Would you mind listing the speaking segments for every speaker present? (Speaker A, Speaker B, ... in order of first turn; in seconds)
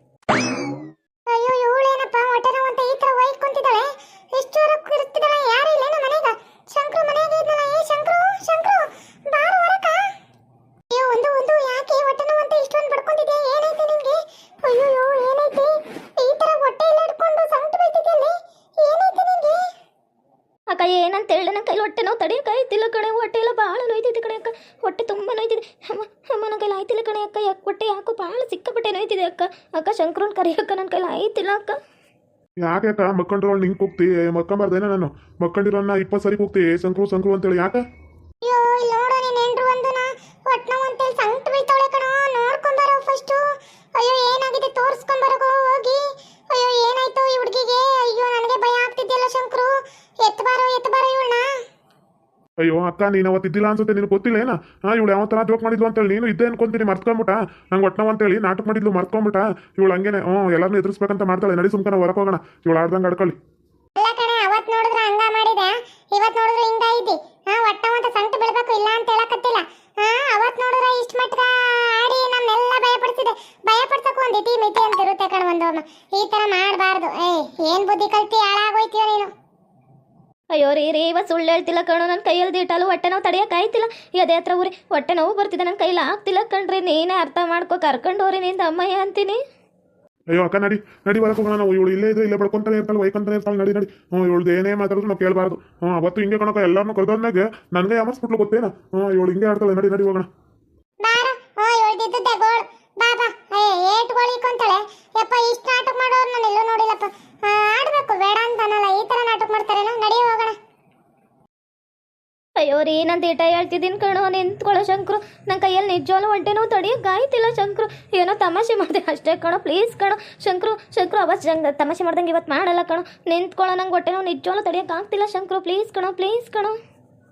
Speaker A: 1.3-10.0, 10.9-19.6, 38.4-43.4, 44.0-51.5, 64.0-79.3, 101.0-110.6
Speaker B: 20.7-31.8, 80.5-89.4, 112.6-126.8
Speaker C: 32.6-37.8, 52.6-63.4, 90.3-100.3